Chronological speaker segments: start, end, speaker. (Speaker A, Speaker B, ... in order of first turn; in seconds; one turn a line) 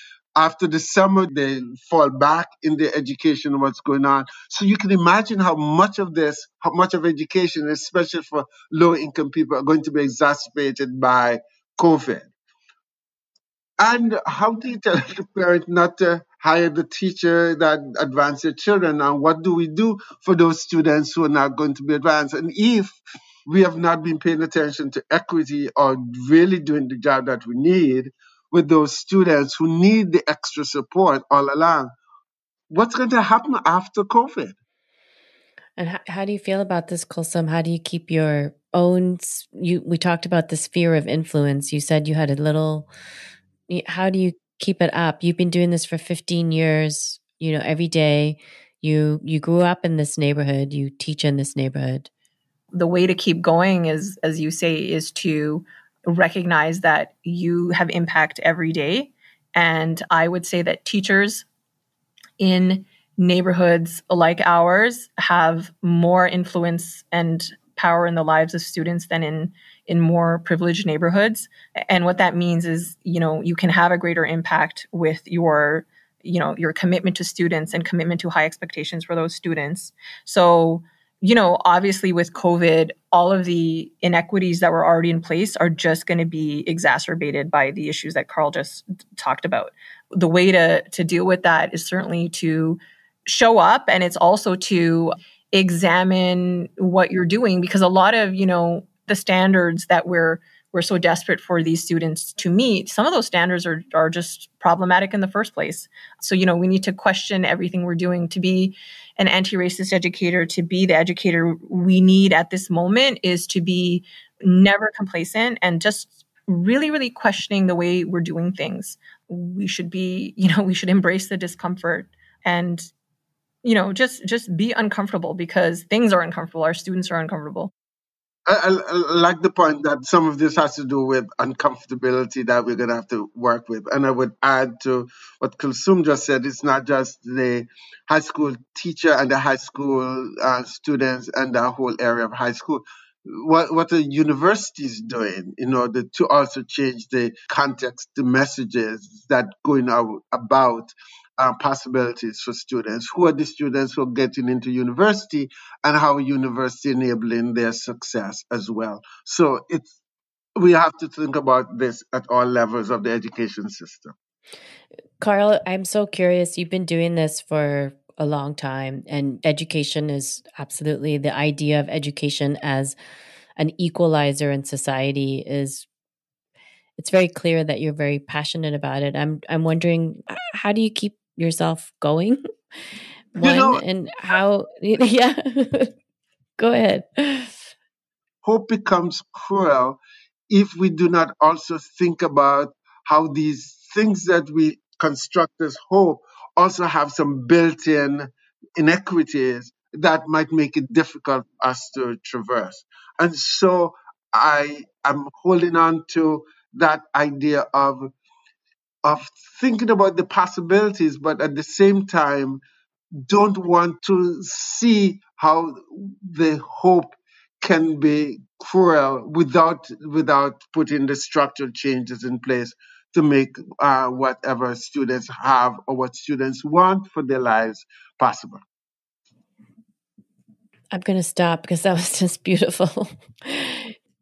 Speaker A: 0.4-12.3
Speaker A: 13.8-31.9
Speaker A: 32.7-34.6
Speaker B: 35.8-42.9
Speaker B: 43.7-52.1
Speaker C: 52.7-61.5
Speaker C: 62.4-122.9
Speaker C: 123.6-127.7
Speaker A: 128.5-159.9
Speaker A: 160.6-164.2
Speaker B: 165.2-173.0
Speaker B: 173.6-175.9
Speaker B: 177.0-182.4
Speaker B: 183.3-185.9
Speaker A: 183.4-183.8
Speaker B: 186.6-187.6
Speaker A: 188.4-208.1
Speaker A: 209.0-212.6
Speaker A: 213.2-228.6
Speaker B: 230.9-233.9